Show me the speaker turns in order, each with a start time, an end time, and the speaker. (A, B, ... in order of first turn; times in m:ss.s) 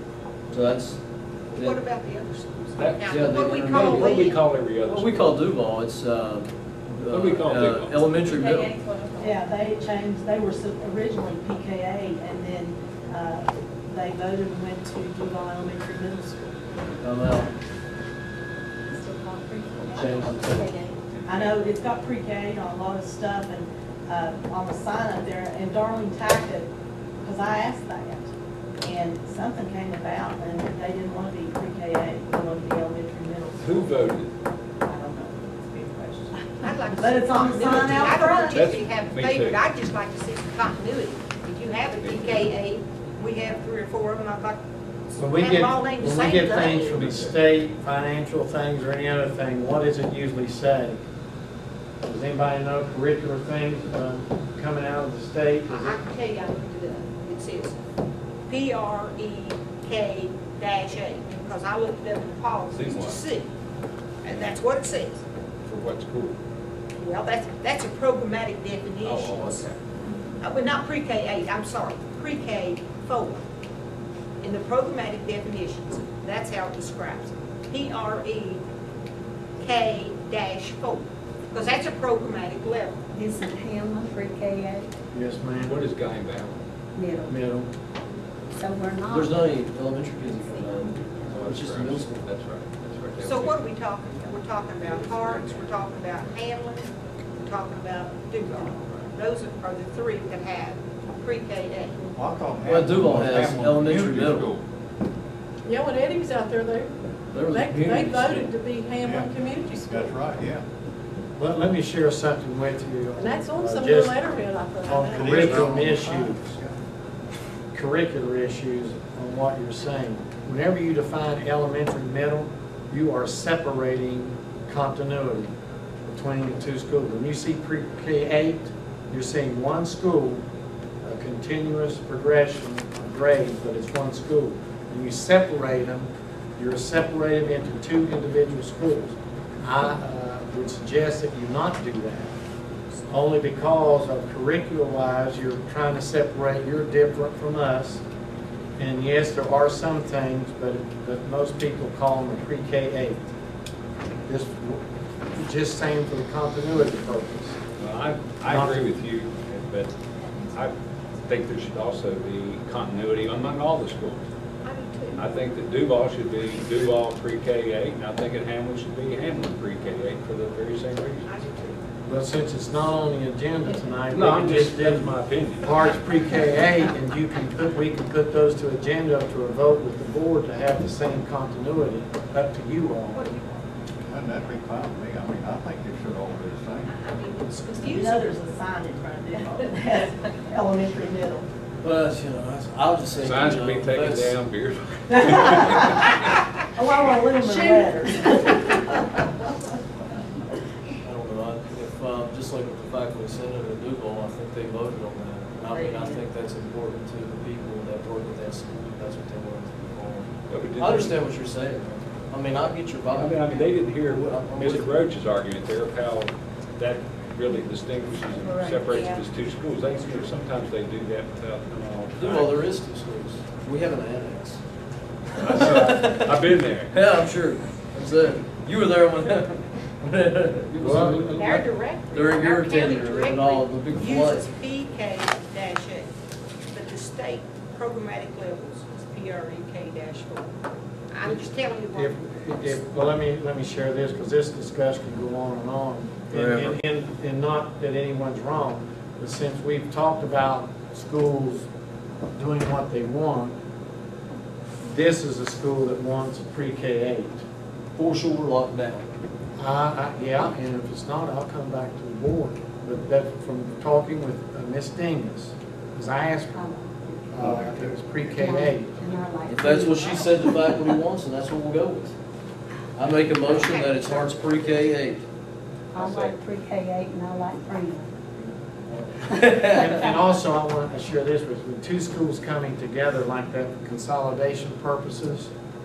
0:00.5-0:01.0 A
0:01.5-0:01.8 A
0:01.5-0:04.4 B
0:02.8-0:05.4 C
0:03.1-0:08.8 A
0:07.1-0:08.5 C
0:08.5-0:09.3 D
0:09.2-0:16.6 E
0:17.0-0:17.5 A
0:18.9-0:20.9 D
0:20.0-0:20.6 F
0:20.1-0:20.4 A
0:21.3-0:34.1 E
0:33.6-0:34.3 C
0:34.8-0:38.8 E
0:36.6-0:44.6 B
0:38.5-0:39.6 C
0:42.0-0:42.4 C
0:45.1-0:51.0 F
0:45.2-0:47.0 B
0:46.9-0:47.4 C
0:52.0-0:56.0 F
0:55.7-0:57.8 B
0:58.5-1:03.5 B
1:02.8-1:03.2 C
1:04.2-1:05.2 B
1:05.7-1:06.4 C
1:07.0-1:09.7 B
1:09.0-1:09.8 C
1:10.4-1:13.4 B
1:14.4-1:18.6 B
1:19.6-1:23.0 B
1:23.1-1:24.9 D
1:25.1-1:25.8 F
1:25.6-1:26.6 C
1:27.0-1:27.4 D
1:27.3-1:27.7 F
1:28.6-1:29.5 D
1:29.1-1:32.3 A
1:31.3-1:33.6 C
1:33.2-1:42.0 B
1:42.1-1:44.6 G
1:42.7-1:44.5 A
1:45.7-1:46.9 H
1:47.3-1:48.5 A
1:47.5-1:50.1 H
1:49.0-1:50.6 G
1:51.4-1:56.5 F
1:53.2-1:55.6 H
1:55.0-1:56.8 G
1:55.4-1:55.7 A
1:57.7-2:05.5 F
2:06.1-2:10.4 F
2:11.0-2:22.4 F
2:23.1-2:28.0 F
2:28.8-2:33.3 F
2:34.3-2:34.8 F
2:35.4-2:37.6 F
2:37.8-2:39.9 C
2:38.4-2:38.9 F
2:41.3-2:44.3 C
2:44.6-2:45.3 B
2:45.2-2:51.3 C
2:51.3-2:51.8 B
2:52.1-3:03.3 F
2:54.1-2:55.7 C
3:03.1-3:03.7 B
3:04.0-3:06.9 G
3:06.9-3:08.3 B
3:07.9-3:11.5 E
3:11.8-3:14.4 A
3:13.2-3:16.1 C
3:15.3-3:16.1 E
3:16.8-3:19.2 E
3:17.4-3:18.0 H
3:21.0-3:35.0 A
3:25.7-3:26.3 E
3:30.5-3:31.2 C
3:33.2-3:42.6 C
3:38.3-3:39.2 B
3:42.1-3:44.6 A
3:45.3-3:54.5 A
3:45.4-3:46.9 C
3:50.7-3:51.3 C
3:50.8-3:51.6 F
3:51.4-3:56.1 B
3:56.7-4:00.5 B
4:01.1-4:03.1 B
4:01.2-4:11.7 F
4:06.3-4:06.8 A
4:12.4-4:13.6 F
4:14.9-4:17.4 F
4:18.0-4:19.1 A
4:19.6-4:29.0 F
4:26.5-4:27.2 D
4:27.4-4:28.0 G
4:28.4-4:30.6 D
4:29.5-4:32.1 A
4:33.0-4:35.2 A
4:33.4-4:34.8 B
4:35.9-4:38.1 D
4:36.0-4:36.4 A
4:38.9-4:40.0 A
4:39.4-4:45.5 F